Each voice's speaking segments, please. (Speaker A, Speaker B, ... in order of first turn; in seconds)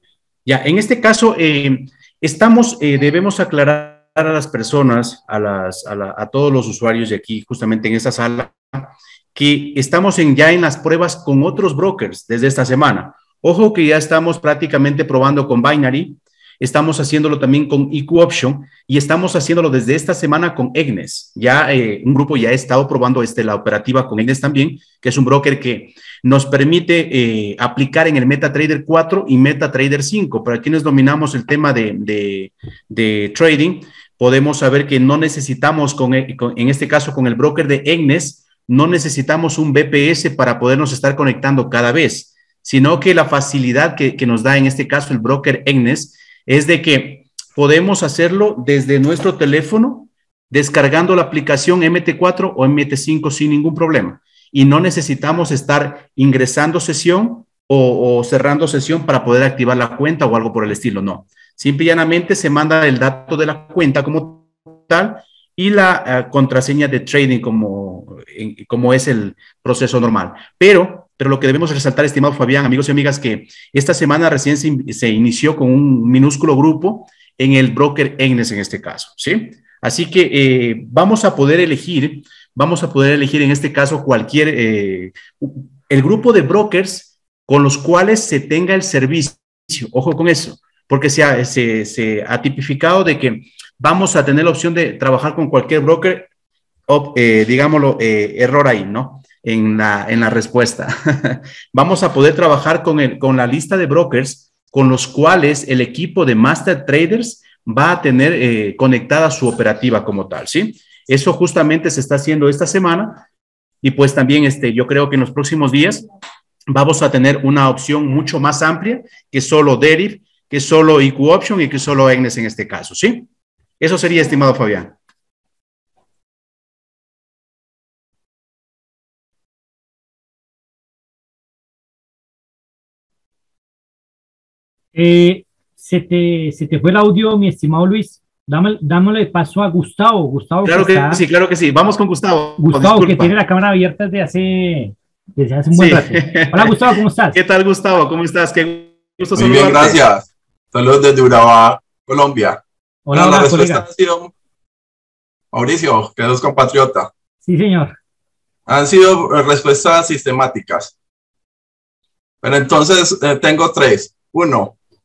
Speaker A: 0.5-96.3, 96.9-113.2, 113.8-116.1, 116.7-123.3, 123.8-125.0, 140.6-143.3, 145.7-146.8, 147.3-150.0
Speaker B: 134.9-141.2, 142.6-147.4, 153.1-153.8, 157.4-157.9
Speaker C: 149.3-152.6, 153.1-154.3, 155.5-157.1, 158.7-160.9, 162.4-164.7